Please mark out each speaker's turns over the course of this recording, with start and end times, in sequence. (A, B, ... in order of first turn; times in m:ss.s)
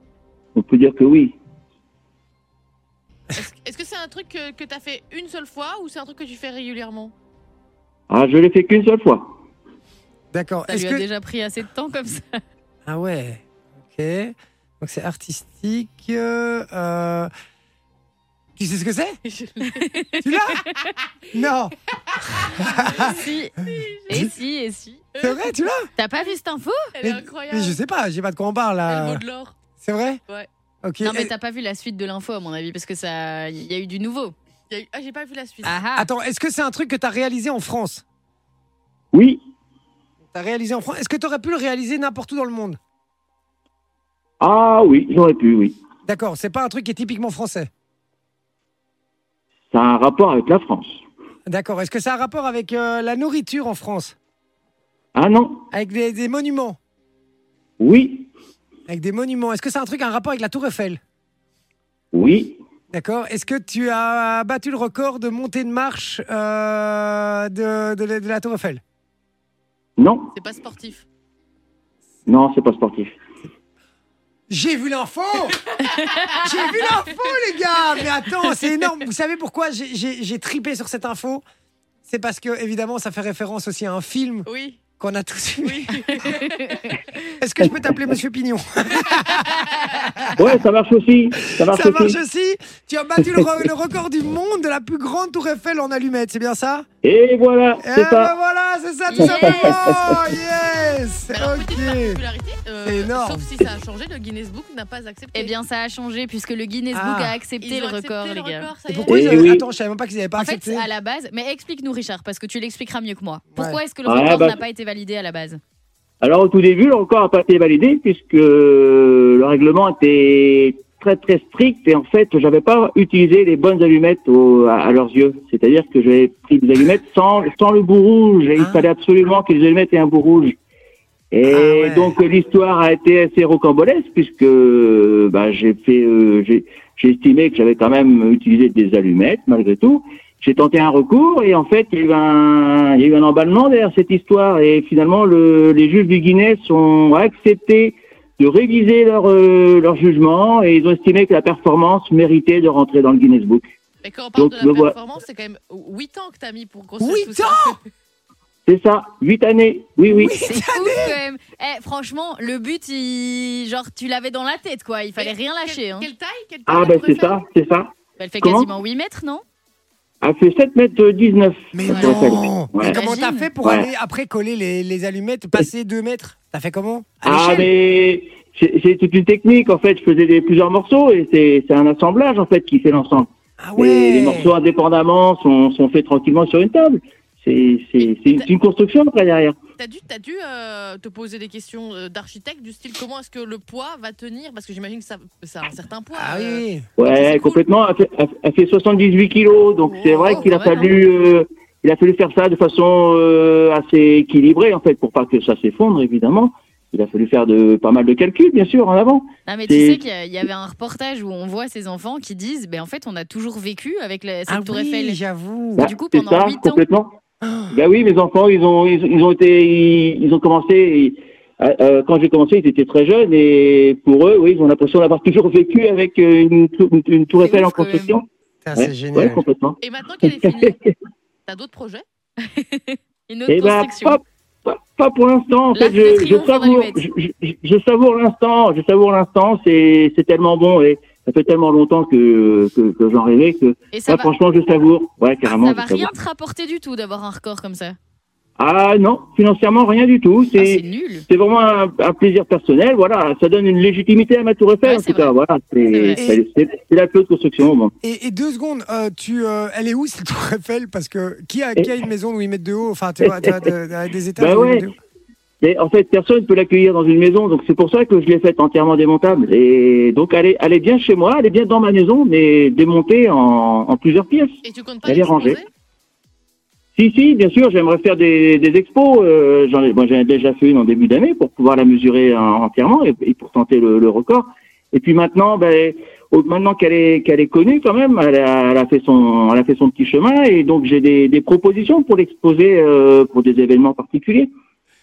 0:00.6-0:01.4 A
0:03.4-0:07.1 B
0:08.1-0:09.3 A
0:10.3-0:11.0 C
0:10.7-0:12.4 D
0:12.9-0:17.3 C
0:18.6-0:19.2 C
0:19.2-0:20.0 B
0:19.7-0:20.9 D
0:20.2-0:20.6 C
0:20.6-0:20.9 B
0:21.3-0:23.2 C
0:22.0-0:24.3 B
0:23.0-0:25.1 D
0:25.1-0:25.5 B
0:25.2-0:25.9 C
0:26.0-0:26.9 D
0:27.0-0:27.8 B
0:27.0-0:29.2 C
0:28.9-0:29.6 B
0:29.8-0:30.2 C
0:30.8-0:31.3 C
0:31.0-0:34.4 D
0:34.7-0:35.8 B
0:35.6-0:38.0 C
0:35.7-0:36.1 D
0:39.1-0:39.4 A
0:40.3-0:42.8 C
0:44.4-0:45.8 A
0:46.1-0:47.7 C
0:49.7-0:51.0 A
0:51.5-0:54.2 C
0:55.2-0:55.7 A
0:55.7-0:56.8 C
0:57.8-0:58.3 A
0:58.9-1:01.0 C
1:02.1-1:02.6 A
1:02.9-1:08.8 C
1:10.0-1:10.3 A
1:10.3-1:11.0 B
1:12.3-1:13.2 A
1:14.5-1:21.4 C
1:22.1-1:26.3 C
1:24.5-1:24.8 B
1:25.6-1:26.8 B
1:26.2-1:26.7 D
1:27.3-1:30.4 C
1:30.4-1:32.2 A
1:31.6-1:36.9 C
1:33.2-1:33.5 A
1:37.0-1:38.3 A
1:37.8-1:42.2 C
1:39.1-1:39.8 D
1:39.2-1:40.3 A
1:41.3-1:45.6 B
1:42.8-1:43.5 C
1:45.3-1:48.7 D
1:46.9-1:47.4 C
1:47.6-1:49.5 B
1:48.9-1:50.9 C
1:49.1-1:49.6 A
1:50.4-1:55.6 D
1:54.0-1:54.6 A
1:56.2-2:10.6 A
2:08.6-2:08.9 C
2:11.3-2:33.6 A
2:11.4-2:12.1 C
2:34.0-2:37.9 B
2:34.4-2:35.0 A
2:37.0-2:37.8 C
2:38.7-2:40.4 A
2:40.1-2:41.2 C
2:40.4-2:46.1 D
2:45.2-2:47.4 B
2:46.7-2:48.7 A
2:48.2-2:49.4 D
2:50.2-2:53.0 A
2:51.7-2:57.7 C
2:51.9-2:53.5 D
2:53.6-2:53.9 A
2:57.2-3:09.5 A
3:03.6-3:04.6 C
3:08.0-3:08.5 B
3:09.8-3:17.6 B
3:16.1-3:16.9 C
3:17.0-3:30.0 A
3:19.9-3:20.9 B
3:20.3-3:20.8 D
3:29.5-3:35.2 D
3:34.5-3:35.9 C
3:35.8-3:36.8 D
3:35.8-3:37.1 A
3:37.4-3:37.7 C
3:37.7-3:49.8 A
3:47.4-3:48.1 D
3:48.6-3:49.4 C
3:49.8-3:50.8 B
3:50.4-3:50.8 A
3:51.5-3:52.0 B
3:52.5-3:54.2 D
3:53.5-4:06.1 A
3:55.8-3:57.0 D
4:03.9-4:04.3 D
4:05.4-4:08.0 D
4:08.6-4:17.9 A
4:10.6-4:11.3 D
4:14.8-4:15.3 D
4:15.9-4:16.2 D
4:18.0-4:24.9 C
4:23.2-4:23.7 A
4:24.4-4:24.9 A
4:25.6-4:35.6 A
4:34.6-4:35.7 B
4:37.0-4:54.5 A